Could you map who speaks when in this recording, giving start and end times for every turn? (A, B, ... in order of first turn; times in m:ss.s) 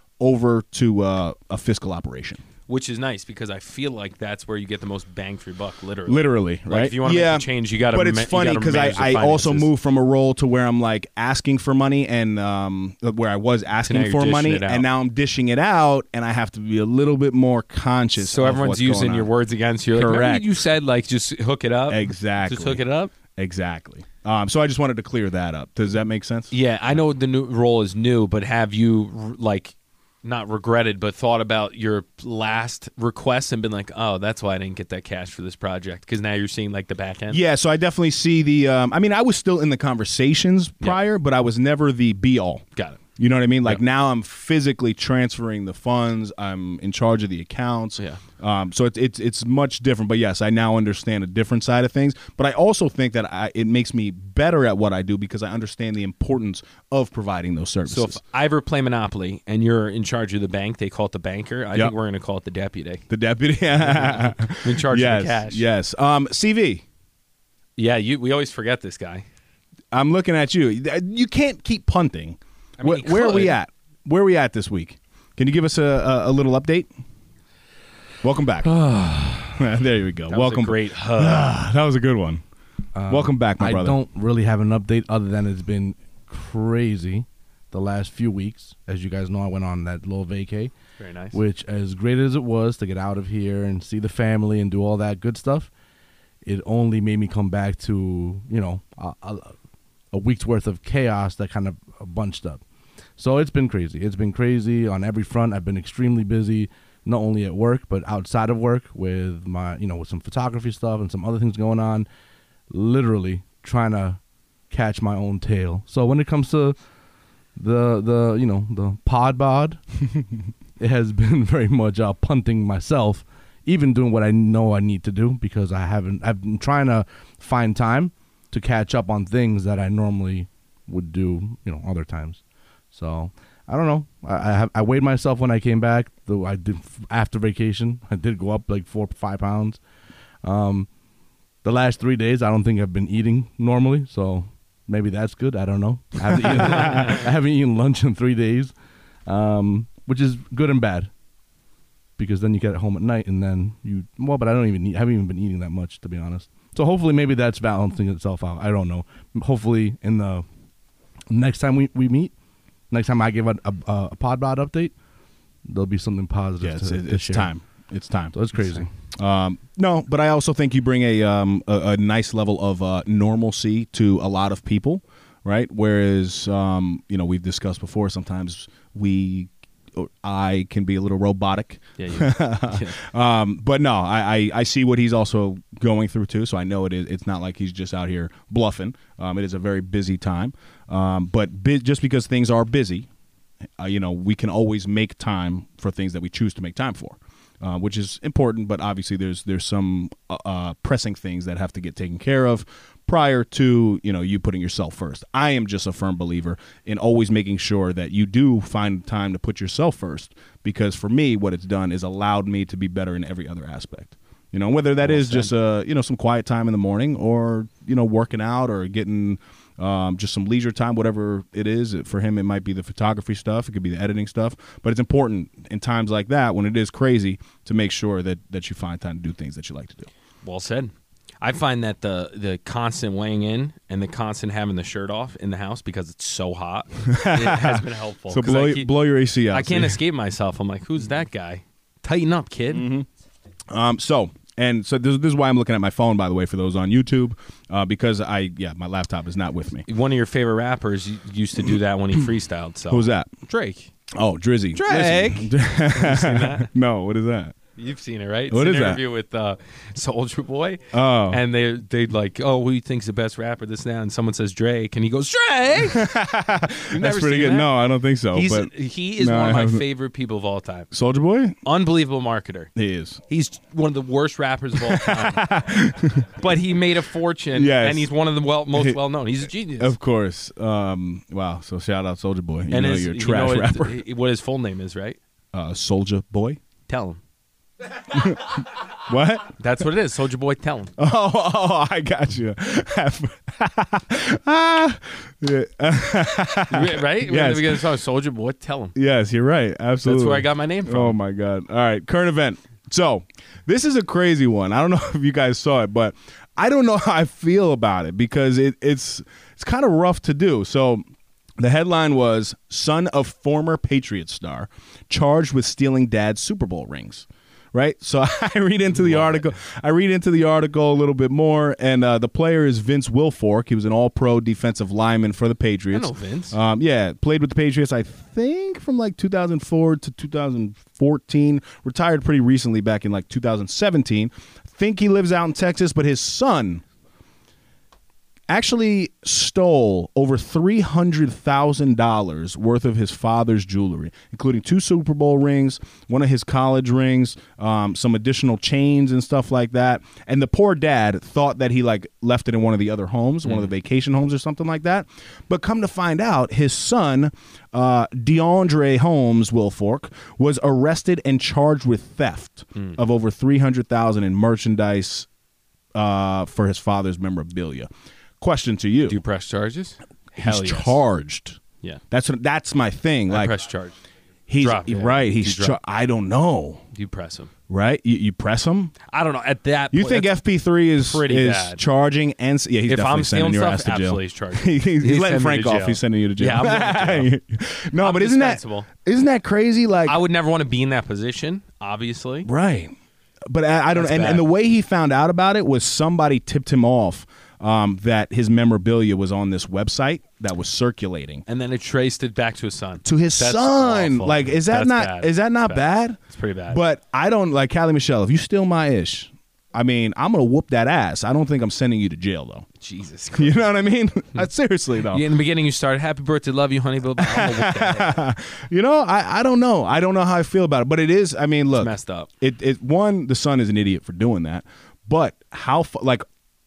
0:00.2-0:02.4 A
0:02.7-0:09.7 B
0:06.1-0:19.3 A
0:13.8-0:14.9 B
0:18.2-0:23.1 B
0:20.0-0:20.5 A
0:21.9-0:22.8 A
0:23.4-0:27.0 A
0:26.5-0:37.4 B
0:37.3-0:42.6 A
0:43.2-0:58.2 A
0:57.9-1:03.1 B
1:03.1-1:06.8 A
1:03.8-1:05.6 B
1:07.8-1:09.2 B
1:09.9-1:16.9 A
1:12.8-1:13.6 B
1:18.2-1:18.8 A
1:18.8-1:19.5 C
1:19.6-1:22.4 A
1:20.3-1:21.6 B
1:23.0-1:30.7 C
1:23.1-1:24.0 A
1:31.0-1:31.4 B
1:31.3-1:35.7 C
1:36.4-1:39.6 C
1:40.1-1:42.6 C
1:43.2-1:52.1 C
1:52.7-1:54.2 C
1:54.7-1:56.8 C
1:57.6-2:00.0 C
2:00.8-2:12.4 C
2:12.9-2:19.8 C
2:20.4-2:20.9 C
2:21.6-2:28.7 C
2:29.3-2:31.1 C
2:32.2-2:40.4 C
2:41.3-2:42.3 C
2:42.9-2:44.9 C
2:45.7-2:47.5 C
2:46.6-3:13.1 A
2:48.3-2:48.9 C
3:02.0-3:03.0 B
3:13.8-3:50.1 A
3:50.4-3:58.9 B
3:57.1-4:00.0 A
3:59.5-4:02.9 B
4:02.7-4:03.1 A
4:03.7-4:09.9 A
4:09.9-4:13.9 B
4:12.9-4:13.3 A
4:14.1-4:17.6 A
4:14.7-4:16.7 B
4:17.8-4:26.2 B
4:18.5-4:19.0 A
4:20.9-4:21.4 A
4:25.9-4:29.9 A
4:26.8-4:27.8 B
4:28.3-4:30.9 B
4:30.9-4:31.6 A
4:31.6-4:32.7 B
4:32.8-4:33.2 A
4:33.3-4:35.5 B
4:34.8-4:36.3 A
4:36.4-4:40.0 B
4:37.5-4:38.1 A
4:38.7-4:39.0 A
4:39.8-4:44.0 A
4:42.7-4:45.2 B
4:45.5-4:46.6 A
4:46.9-4:47.2 B
4:48.1-4:49.6 A
4:49.6-4:50.9 B
4:51.0-4:57.8 A
4:56.7-4:59.0 B
4:59.0-5:11.0 A
5:00.0-5:01.2 B
5:11.6-5:36.8 A
5:18.9-5:19.4 B
5:25.9-5:26.6 B
5:38.5-6:05.3 A
5:53.4-5:53.7 B
6:06.0-6:07.9 A
6:08.4-6:09.2 A
6:09.1-6:11.0 B
6:10.4-6:11.6 A
6:12.1-6:13.6 A
6:13.3-6:14.0 B
6:14.5-6:16.8 A
6:14.6-6:15.8 B
6:16.9-6:17.5 B
6:17.7-6:19.0 A
6:19.1-6:20.3 B
6:19.9-6:30.2 A
6:21.0-6:21.8 B
6:22.9-6:27.3 B
6:28.0-6:28.9 B
6:30.1-6:32.5 B
6:32.4-6:32.9 A
6:33.5-6:41.4 A
6:33.9-6:34.5 B
6:41.5-6:46.8 B
6:43.0-6:46.2 A
6:46.7-6:52.7 A
6:52.8-6:53.6 B
6:53.4-6:55.2 A
6:55.1-6:58.2 B
6:57.2-7:06.2 A
7:01.8-7:02.3 B